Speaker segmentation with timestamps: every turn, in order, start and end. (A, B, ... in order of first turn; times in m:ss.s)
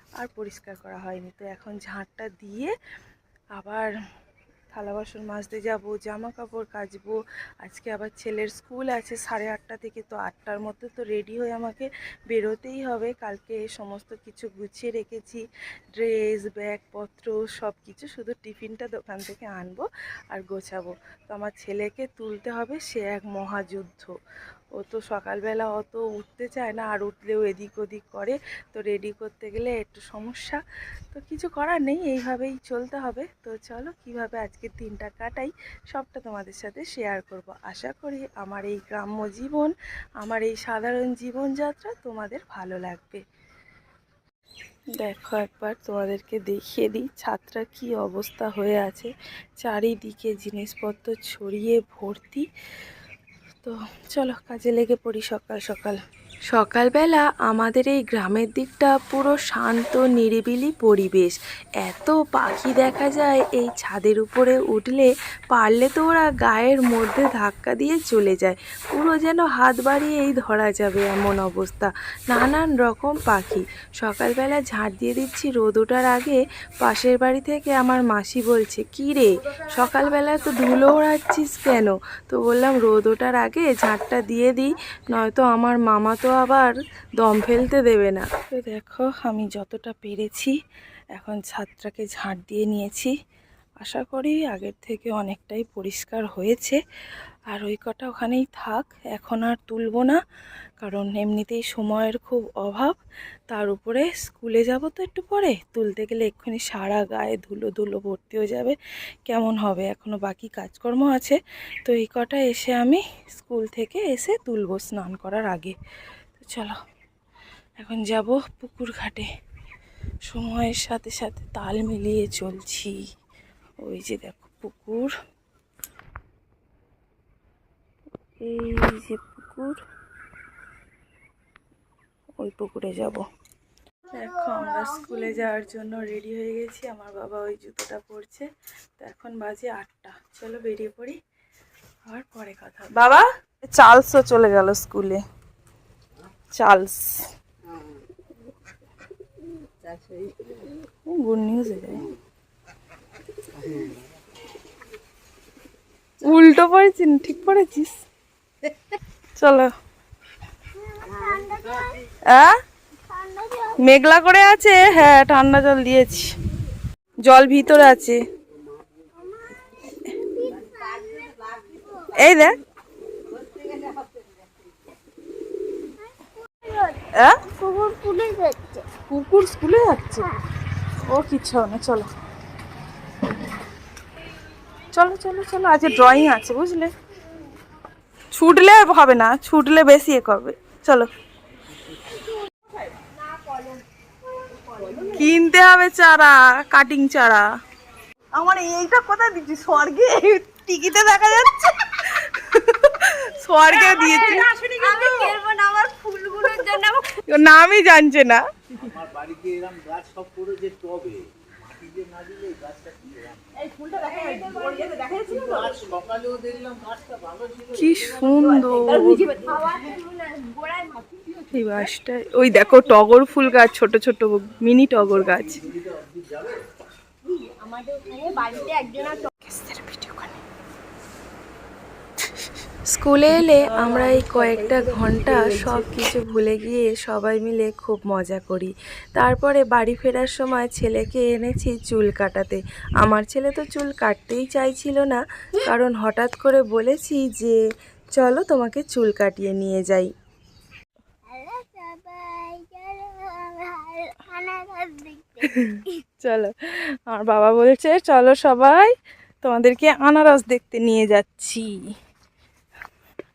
0:00.2-0:02.7 A
0:03.5-0:03.9 A
0:04.7-0:15.4 A
0:15.9-0:24.2 A
0:24.7-0:43.2 A
0:45.0-0:52.5 A
0:53.6-0:56.0 A
0:56.5-1:30.5 A
1:31.1-1:33.1 A
1:33.8-1:36.8 A
1:37.5-1:40.2 A
1:40.8-1:43.0 A
1:43.5-1:55.8 A
1:56.4-1:56.8 A
1:57.8-1:59.2 A
2:00.3-2:03.0 A
2:03.8-2:05.1 A
2:08.4-2:09.8 A
2:12.4-2:13.2 A
2:14.1-2:18.5 A
2:19.0-2:21.2 A
2:22.1-2:25.2 A
2:26.5-2:27.2 A
2:31.1-2:32.0 A
2:36.2-2:38.0 A
2:39.4-2:39.7 A
2:40.7-2:42.0 B
2:42.3-2:42.5 A
2:43.1-2:43.8 B
2:43.8-2:46.3 A
2:47.2-2:48.2 A
2:49.2-2:52.3 B
2:52.2-2:52.6 A
2:56.2-2:58.9 B
2:57.1-2:57.4 A
2:59.1-3:00.3 A
3:01.0-3:02.1 A
3:04.9-3:06.9 A
3:08.3-3:11.1 A
3:14.8-3:15.1 B
3:15.1-3:17.4 A
3:18.4-3:20.3 C
3:19.2-3:19.6 A
3:20.2-3:24.5 A
3:23.9-3:27.0 B
3:24.6-3:25.4 C
3:27.1-3:28.4 A
3:28.9-3:31.2 C
3:31.7-3:37.4 C
3:34.0-3:35.9 B
3:37.7-3:39.3 A
3:38.8-3:39.6 C
3:39.2-3:41.2 B
3:41.5-3:45.6 A
3:47.4-3:49.3 B
3:49.4-3:50.4 A
3:52.8-4:07.6 A
4:08.1-4:10.1 A
4:11.2-4:16.0 B
4:15.4-4:21.7 A